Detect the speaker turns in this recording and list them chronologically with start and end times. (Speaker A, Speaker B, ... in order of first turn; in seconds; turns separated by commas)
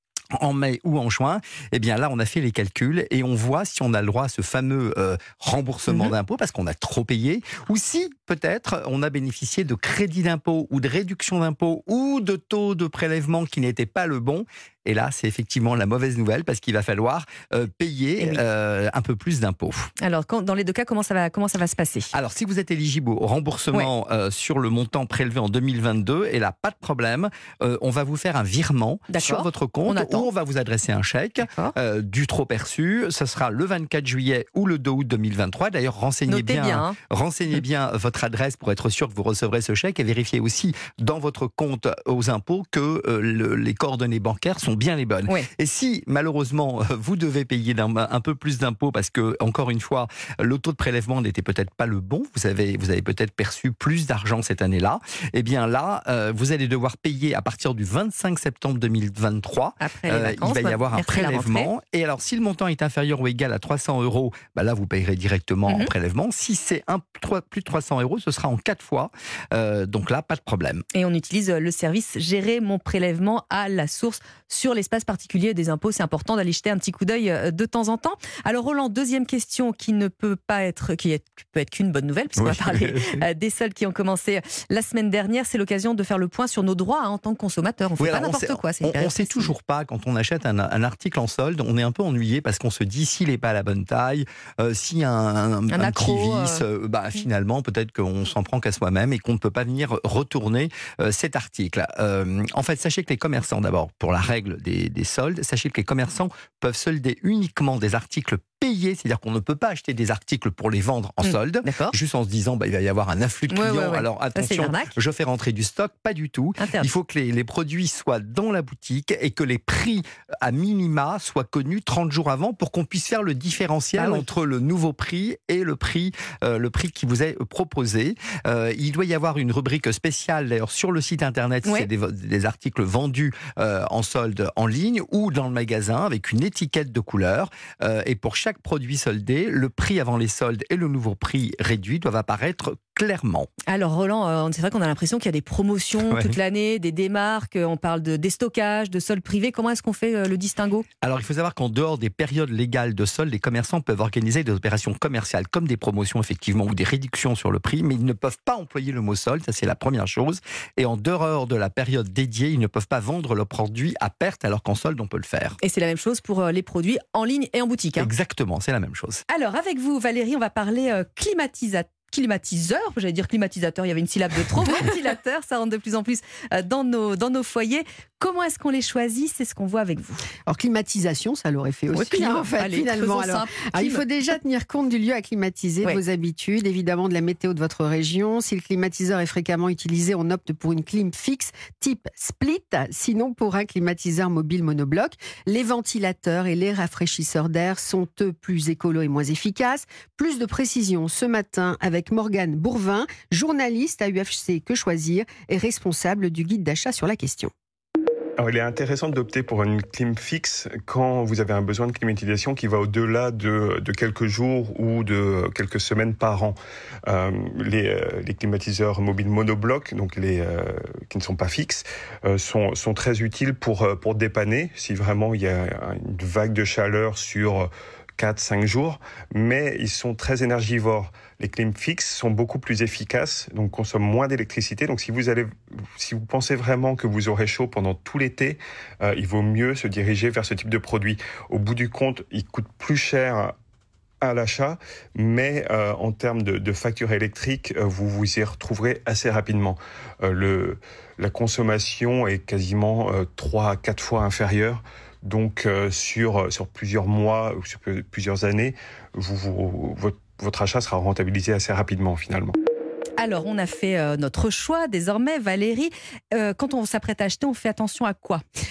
Speaker A: 0.4-19.9, Speaker B: 20.0-22.1, Speaker A: 22.1-70.8, Speaker B: 29.1-30.3, Speaker B: 31.4-31.7, Speaker B: 36.3-37.0, Speaker B: 59.8-61.7, Speaker B: 70.9-89.5, Speaker A: 82.4-83.2, Speaker A: 88.0-143.5, Speaker B: 95.7-96.6, Speaker B: 111.2-112.0, Speaker B: 113.5-114.9, Speaker B: 116.6-116.9, Speaker B: 124.0-124.3, Speaker B: 143.7-150.8, Speaker A: 146.0-146.4, Speaker A: 151.0-165.6, Speaker B: 165.6-168.1, Speaker A: 168.0-169.2, Speaker B: 169.3-180.2, Speaker C: 180.4-207.5, Speaker B: 181.9-184.0, Speaker D: 208.4-243.5, Speaker D: 244.2-262.6, Speaker B: 263.2-268.4